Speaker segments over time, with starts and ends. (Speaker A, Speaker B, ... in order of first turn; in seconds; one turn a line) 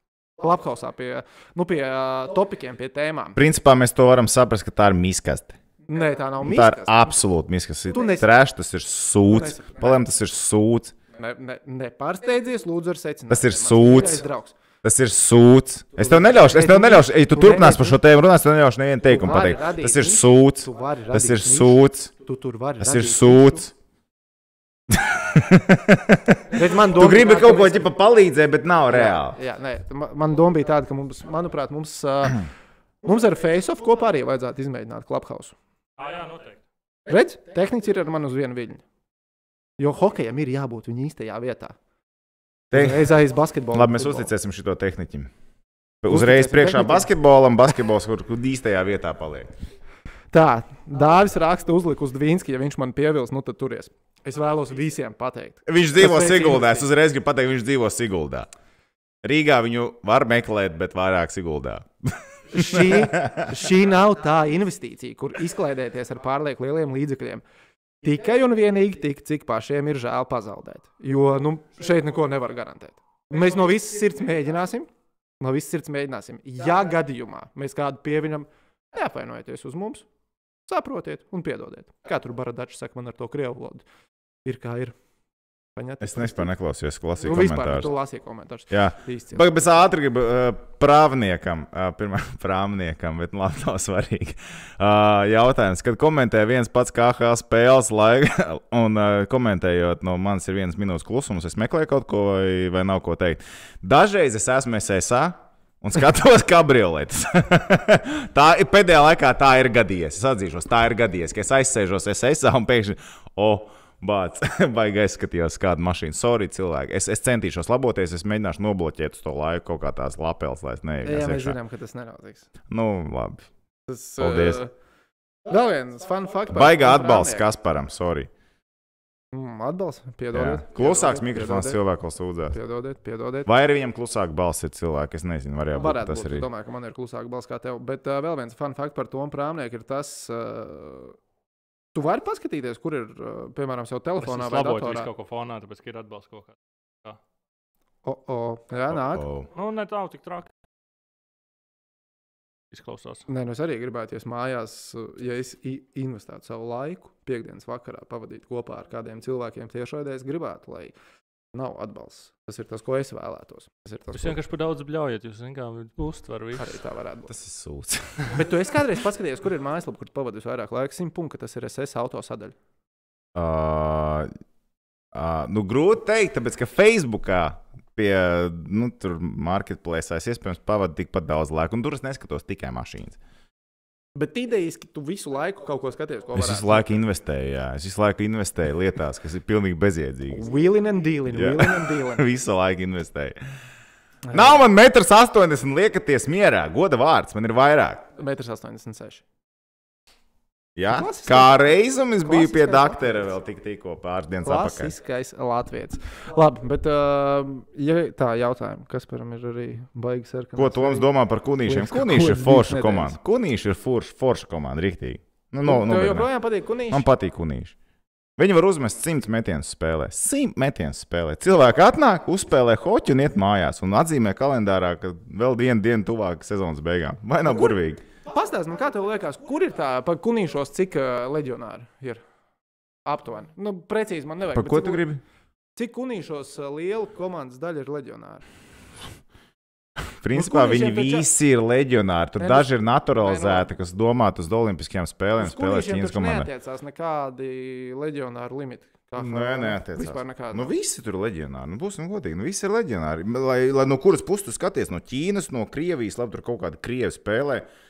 Speaker A: 0.4-3.4
Speaker B: 3.4-5.6
Speaker A: 5.9-7.0
Speaker B: 6.4-10.9
Speaker A: 7.9-8.3
Speaker A: 9.2-10.0
Speaker A: 11.2-14.6
Speaker B: 13.3-14.3
Speaker B: 14.8-22.1
Speaker A: 16.0-18.0
Speaker A: 19.0-23.7
Speaker B: 22.8-23.7
Speaker B: 24.9-29.4
Speaker A: 26.5-27.9
Speaker A: 28.9-32.5
Speaker A: 33.0-35.6
Speaker C: 36.0-36.6
Speaker A: 37.1-38.8
Speaker A: 39.8-41.8
Speaker B: 42.7-43.1
Speaker A: 42.7-44.3
Speaker B: 43.7-45.3
Speaker B: 46.0-49.5
Speaker A: 46.1-47.1
Speaker A: 50.3-56.9
Speaker B: 55.7-58.5
Speaker B: 59.2-63.6
Speaker A: 62.5-67.4
Speaker A: 68.0-80.1
Speaker A: 80.7-83.9
Speaker A: 84.5-85.0
Speaker A: 85.8-86.5
Speaker B: 86.0-87.9
Speaker A: 87.2-89.6
Speaker B: 88.7-121.6
Speaker A: 121.0-122.5
Speaker B: 122.7-123.4
Speaker A: 123.9-124.7
Speaker B: 124.2-124.6
Speaker A: 125.5-127.5
Speaker B: 126.5-128.3
Speaker A: 129.3-131.8
Speaker B: 130.3-132.6
Speaker A: 132.5-133.5
Speaker B: 133.5-136.5
Speaker A: 135.7-141.2
Speaker A: 141.9-145.1
Speaker C: 144.2-147.2
Speaker A: 148.1-149.3
Speaker B: 148.9-149.5
Speaker C: 149.5-150.5
Speaker C: 152.7-153.3
Speaker A: 153.3-160.9
Speaker A: 161.5-164.4
Speaker C: 164.1-166.8
Speaker A: 166.6-167.3
Speaker B: 167.3-168.8
Speaker A: 168.3-172.6
Speaker B: 173.3-174.3
Speaker B: 175.1-183.2
Speaker A: 184.2-186.9
Speaker B: 186.3-190.4
Speaker A: 190.3-192.2
Speaker B: 191.3-193.4
Speaker A: 194.3-194.6
Speaker B: 194.3-198.1
Speaker A: 198.2-199.2
Speaker B: 200.8-204.9
Speaker A: 200.9-201.5
Speaker A: 202.2-203.0
Speaker A: 204.4-211.1
Speaker B: 210.6-216.3
Speaker A: 211.6-213.2
Speaker A: 215.6-217.1
Speaker B: 216.9-217.8
Speaker B: 218.4-228.1
Speaker A: 228.3-232.2
Speaker A: 233.1-235.0
Speaker B: 234.5-235.2
Speaker A: 235.8-238.4
Speaker B: 240.0-246.5
Speaker A: 240.3-241.3
Speaker A: 242.4-242.7
Speaker A: 243.2-243.7
Speaker A: 245.4-250.8
Speaker B: 249.2-257.7